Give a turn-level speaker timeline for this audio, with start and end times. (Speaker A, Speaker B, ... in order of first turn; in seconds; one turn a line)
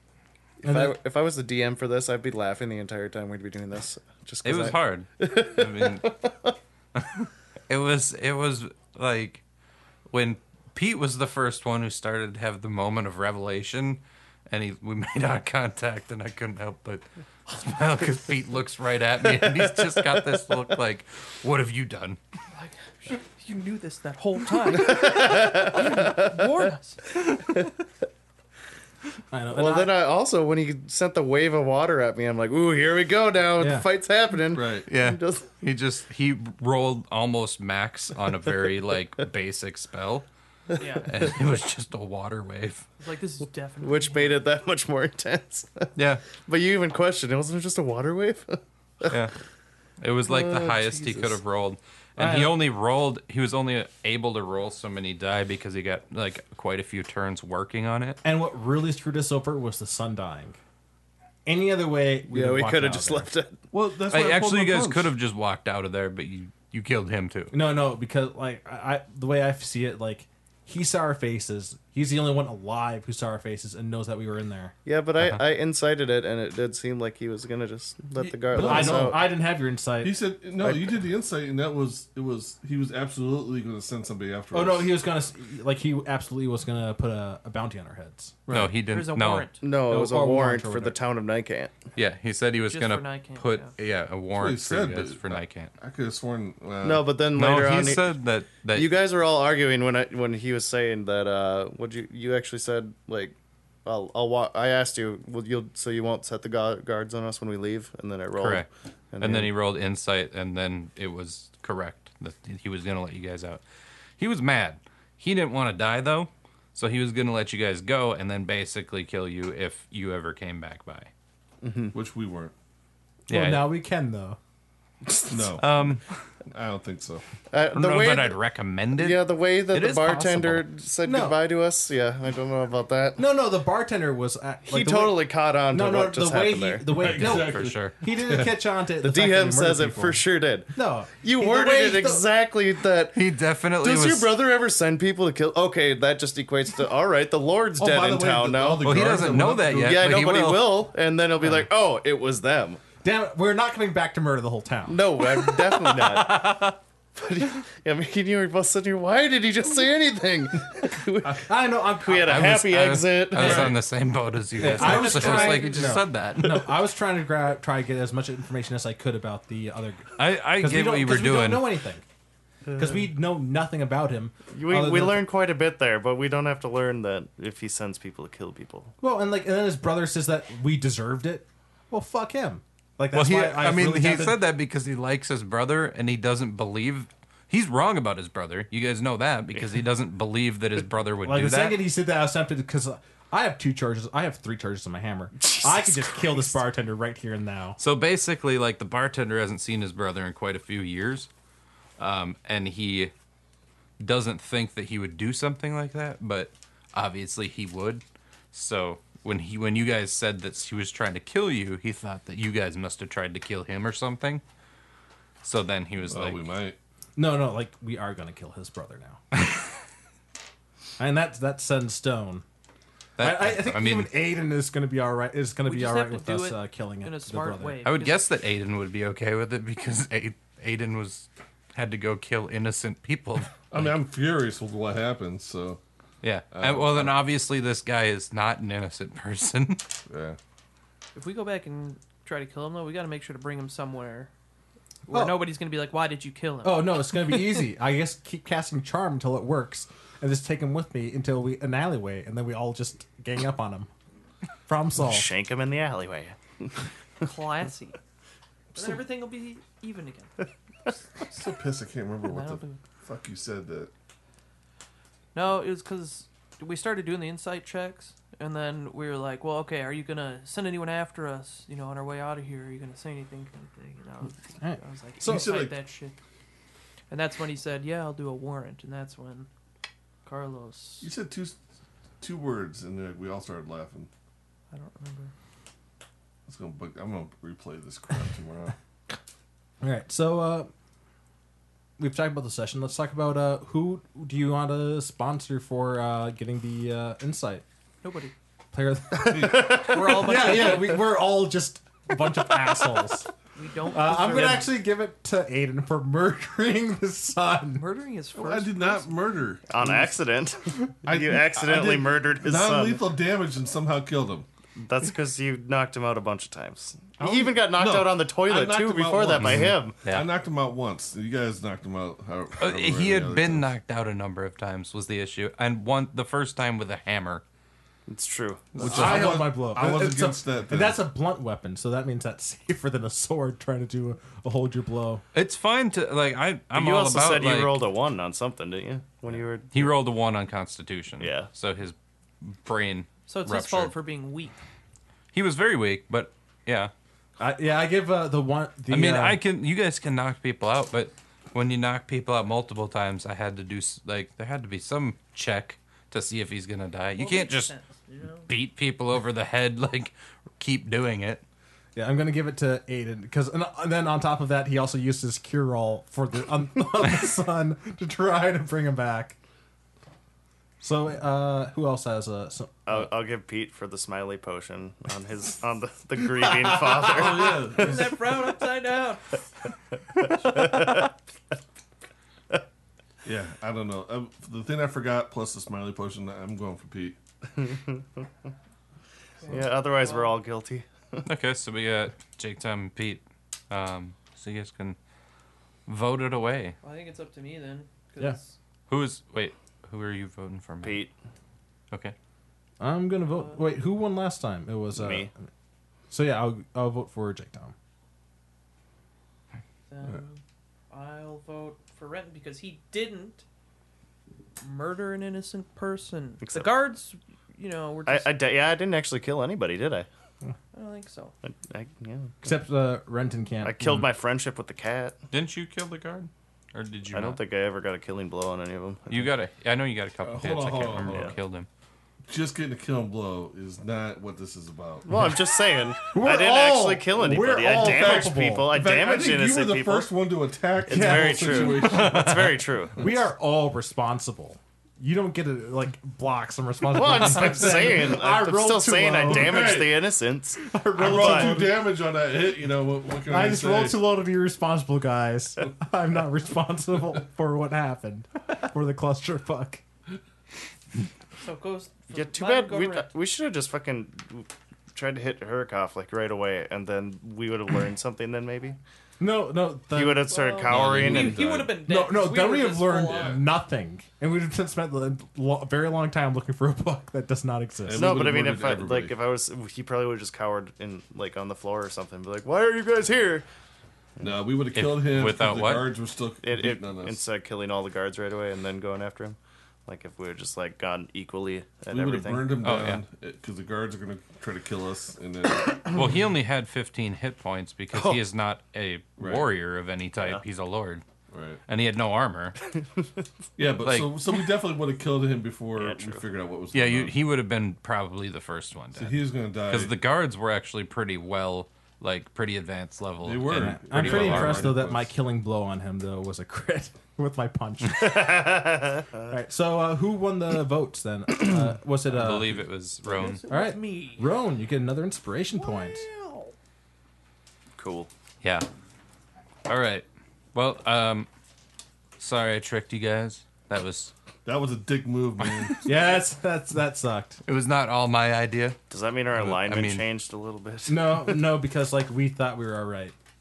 Speaker A: 0.6-6.5
Speaker B: 0.6-1.0
Speaker C: 4.4-6.1
Speaker C: 7.0-9.4
Speaker C: 10.1-22.2
Speaker D: 22.5-27.2
Speaker A: 24.7-26.3
Speaker B: 29.3-29.9
Speaker A: 29.5-35.5
Speaker B: 33.6-33.9
Speaker E: 34.5-34.9
Speaker C: 34.9-40.2
Speaker D: 40.8-41.1
Speaker C: 40.9-42.9
Speaker D: 43.0-44.4
Speaker A: 43.8-49.2
Speaker C: 46.0-46.2
Speaker C: 49.1-49.3
Speaker C: 50.0-58.2
Speaker A: 50.2-51.4
Speaker B: 52.2-52.6
Speaker B: 58.2-60.6
Speaker B: 61.5-63.3
Speaker A: 62.3-63.6
Speaker E: 63.7-65.1
Speaker C: 64.1-67.5
Speaker B: 67.5-74.7
Speaker A: 74.8-79.2
Speaker B: 78.4-80.2
Speaker E: 78.5-79.0
Speaker E: 80.0-85.0
Speaker A: 80.6-81.0
Speaker B: 84.5-88.3
Speaker E: 88.5-88.8
Speaker C: 88.5-89.5
Speaker D: 88.9-89.6
Speaker A: 89.6-91.7
Speaker B: 89.9-91.0
Speaker C: 92.0-95.7
Speaker D: 92.7-93.7
Speaker E: 94.3-97.1
Speaker A: 96.8-98.2
Speaker C: 97.3-99.0
Speaker A: 98.7-109.5
Speaker C: 108.4-108.7
Speaker C: 109.2-113.6
Speaker C: 114.2-121.1
Speaker A: 121.6-122.0
Speaker E: 121.9-122.5
Speaker C: 123.3-123.7
Speaker B: 123.3-124.4
Speaker A: 125.0-125.6
Speaker E: 125.3-126.0
Speaker C: 125.6-126.2
Speaker E: 126.5-127.2
Speaker A: 127.5-128.4
Speaker C: 127.7-130.7
Speaker A: 128.9-133.2
Speaker B: 131.0-131.4
Speaker B: 133.2-142.2
Speaker A: 134.7-136.9
Speaker E: 136.9-138.6
Speaker C: 137.0-137.9
Speaker A: 139.0-143.2
Speaker C: 143.1-144.3
Speaker A: 143.8-149.0
Speaker E: 147.8-150.1
Speaker C: 148.8-150.8
Speaker A: 149.8-152.8
Speaker B: 153.0-155.0
Speaker A: 154.9-163.8
Speaker C: 155.6-156.7
Speaker B: 161.2-162.5
Speaker C: 162.2-166.7
Speaker B: 163.4-163.8
Speaker B: 164.6-172.0
Speaker A: 164.8-165.9
Speaker C: 170.2-171.7
Speaker B: 172.7-175.2
Speaker A: 174.5-178.9
Speaker B: 179.0-184.4
Speaker C: 183.1-191.8
Speaker B: 191.2-197.8
Speaker A: 195.4-196.6
Speaker C: 197.8-201.3
Speaker C: 202.0-203.1
Speaker C: 204.0-214.4
Speaker C: 215.4-216.4
Speaker E: 216.1-216.8
Speaker B: 217.2-219.2
Speaker B: 221.0-222.4
Speaker C: 223.2-224.1
Speaker B: 223.2-227.8
Speaker D: 225.6-228.2
Speaker C: 227.8-233.9
Speaker E: 233.7-235.8
Speaker C: 236.2-239.9
Speaker E: 236.5-237.2
Speaker E: 240.1-240.4
Speaker D: 241.1-244.3
Speaker D: 245.1-247.2
Speaker B: 245.1-245.5
Speaker B: 246.6-253.9
Speaker B: 254.7-255.3
Speaker A: 255.0-256.9
Speaker D: 257.2-258.0
Speaker D: 258.7-260.5
Speaker E: 261.3-263.9
Speaker D: 262.2-262.8
Speaker D: 265.3-276.1
Speaker B: 274.6-275.6
Speaker E: 275.2-275.8
Speaker D: 277.1-279.5
Speaker D: 280.2-281.1
Speaker E: 281.0-281.6
Speaker E: 282.2-284.1
Speaker D: 284.7-285.3
Speaker E: 286.5-288.8
Speaker B: 289.8-290.7
Speaker B: 292.0-297.6
Speaker D: 298.0-298.3
Speaker B: 298.7-303.3
Speaker E: 299.2-299.8
Speaker A: 299.5-300.8
Speaker D: 299.8-301.0
Speaker D: 303.5-304.7
Speaker B: 303.9-307.8
Speaker D: 307.7-309.2
Speaker E: 308.3-310.2
Speaker A: 309.7-313.2
Speaker E: 311.0-314.5
Speaker A: 314.8-320.0
Speaker E: 317.2-323.7
Speaker C: 319.4-320.3
Speaker C: 322.6-327.4
Speaker A: 328.1-329.0
Speaker E: 328.8-331.0
Speaker C: 328.8-329.3
Speaker B: 328.8-335.2
Speaker C: 335.3-337.9
Speaker A: 336.7-339.9
Speaker C: 339.7-343.9
Speaker A: 341.2-341.5
Speaker D: 343.3-344.5
Speaker C: 345.3-346.9
Speaker B: 347.4-349.4
Speaker C: 348.9-357.7
Speaker D: 357.2-358.5
Speaker C: 358.5-361.4
Speaker B: 361.9-369.4
Speaker B: 370.8-373.1
Speaker A: 372.9-378.5
Speaker E: 377.0-378.2
Speaker D: 377.6-379.7
Speaker A: 380.1-381.1
Speaker E: 383.2-387.2
Speaker A: 387.5-388.5
Speaker D: 389.4-390.4
Speaker A: 389.5-391.2
Speaker C: 391.2-395.0
Speaker C: 395.9-396.8
Speaker D: 396.8-398.6
Speaker C: 398.9-401.0
Speaker A: 400.8-401.1
Speaker B: 402.8-405.3
Speaker D: 403.3-403.6
Speaker A: 404.9-405.3
Speaker B: 406.1-407.7
Speaker D: 409.9-413.4
Speaker D: 414.6-418.3
Speaker A: 416.4-416.8
Speaker A: 418.1-420.1
Speaker D: 420.7-421.3
Speaker A: 421.4-422.3
Speaker B: 422.4-424.1
Speaker A: 423.6-425.2
Speaker C: 425.3-427.4
Speaker A: 427.1-429.3
Speaker C: 429.1-431.7
Speaker E: 430.2-431.4
Speaker A: 431.1-431.3
Speaker E: 432.3-435.3
Speaker A: 435.1-440.1
Speaker B: 436.1-438.7
Speaker E: 437.8-442.5
Speaker A: 440.8-443.0
Speaker B: 440.9-442.3
Speaker C: 442.2-442.5
Speaker B: 443.0-449.8
Speaker A: 446.9-451.6
Speaker E: 449.4-450.0
Speaker B: 450.6-451.9
Speaker E: 450.9-454.0
Speaker B: 453.3-459.8
Speaker D: 461.4-463.1
Speaker A: 462.1-468.8
Speaker B: 469.2-470.2
Speaker A: 469.9-471.4
Speaker D: 470.2-473.4
Speaker E: 470.6-471.8
Speaker C: 470.7-471.7
Speaker B: 471.8-478.1
Speaker E: 473.0-473.4
Speaker E: 477.8-479.2
Speaker A: 477.9-483.4
Speaker E: 484.2-487.2
Speaker C: 484.7-485.9
Speaker A: 486.4-492.7
Speaker E: 491.9-496.0
Speaker C: 492.6-493.0
Speaker C: 495.9-501.0
Speaker A: 497.9-498.2
Speaker E: 499.2-499.5
Speaker E: 501.3-501.6
Speaker C: 501.7-502.6
Speaker E: 503.6-507.1
Speaker C: 503.8-504.1
Speaker A: 505.8-506.2
Speaker C: 506.7-514.8
Speaker E: 508.9-510.0
Speaker E: 513.2-515.1
Speaker B: 513.5-518.6
Speaker A: 518.0-519.1
Speaker B: 519.3-522.6
Speaker C: 522.1-523.4
Speaker D: 523.0-524.4
Speaker B: 523.5-526.0
Speaker D: 525.5-526.5
Speaker A: 527.7-528.1
Speaker C: 529.7-531.3
Speaker C: 532.2-534.1
Speaker E: 534.5-535.8
Speaker B: 535.8-537.4
Speaker C: 537.4-538.8
Speaker A: 538.9-541.5
Speaker C: 539.3-540.0
Speaker B: 540.9-543.1